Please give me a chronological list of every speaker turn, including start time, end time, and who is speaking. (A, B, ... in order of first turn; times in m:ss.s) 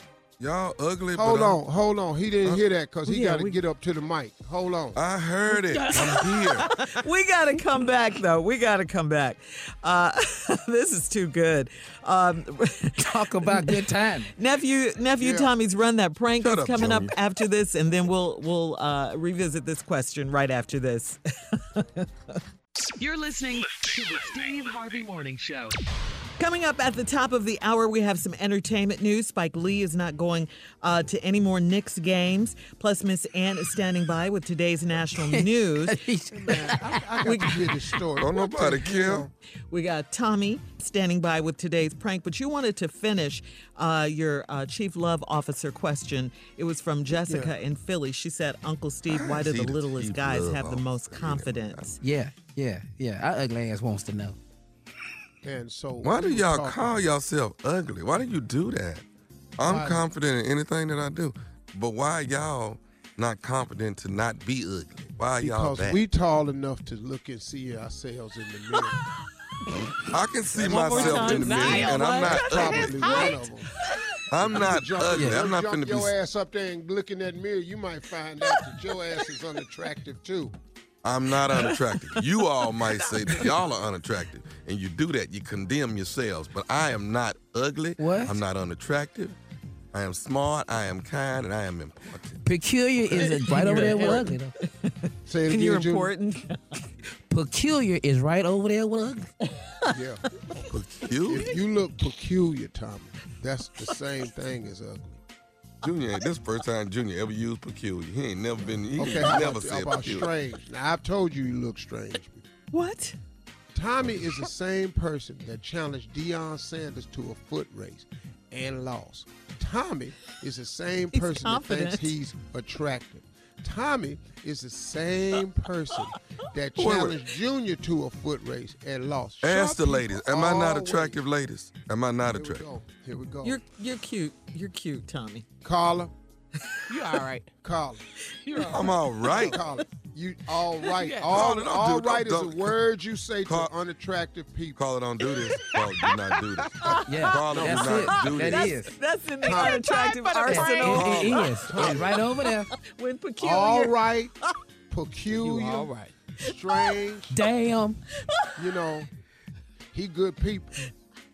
0:00.4-0:01.6 A
0:01.1-0:05.0 B
0:03.0-0:03.6 C
0:04.9-0:06.7 A
0:05.8-0:06.4 D
0:07.0-0:13.8 C
0:13.0-0:14.3 D
0:14.4-0:22.4 C
0:15.2-0:15.5 B
0:16.4-0:17.1 A
0:23.0-0:25.8 E
0:26.4-0:36.0 C
0:35.2-0:37.7 D
0:36.3-0:39.3 B
0:37.2-0:37.6 C
0:38.2-0:39.3 A
0:39.7-0:52.0 C
0:47.2-0:47.5 B
0:49.1-0:51.8 A
0:52.0-0:54.4 D
0:55.4-0:56.9 B
0:56.0-0:59.0 A
0:59.6-1:06.0 A
0:59.6-1:00.0 B
1:05.4-1:09.0 B
1:10.1-1:13.2 A
1:10.6-1:13.7 B
1:10.6-1:13.4 C
1:11.5-1:11.8 F
1:14.3-1:16.1 A
1:14.3-1:20.6 B
1:15.1-1:15.5 D
1:21.0-1:29.4 A
1:21.6-1:22.2 C
1:28.0-1:28.4 D
1:29.9-1:32.4 A
1:32.4-1:34.5 D
1:33.1-1:36.6 C
1:35.3-1:36.1 B
1:37.3-1:39.3 D
1:39.9-1:40.3 B
1:40.7-1:41.5 A
1:41.2-1:45.2 B
1:45.8-1:50.3 A
1:48.9-1:52.4 B
1:52.7-1:53.2 C
1:53.7-2:11.2 B
2:01.1-2:02.1 C
2:06.8-2:07.2 A
2:09.4-2:12.7 A
2:12.3-2:13.6 B
2:13.4-2:15.5 C
2:15.6-2:16.1 B
2:16.9-2:17.5 F
2:17.6-2:18.1 B
2:18.7-2:19.6 A
2:19.2-2:24.8 B
2:20.9-2:21.4 F
2:21.2-2:22.7 A
2:23.4-2:23.7 A
2:24.8-2:28.7 A
2:26.8-2:33.9 C
2:27.0-2:28.9 D
2:27.6-2:27.9 B
2:29.4-2:29.8 B
2:29.6-2:31.1 F
2:30.5-2:32.7 D
2:30.9-2:31.4 A
2:31.7-2:32.1 B
2:33.4-2:34.3 B
2:34.9-2:37.4 B
2:35.5-2:35.9 D
2:36.5-2:36.8 C
2:37.3-2:38.0 D
2:38.6-2:39.1 B
2:39.9-2:40.9 B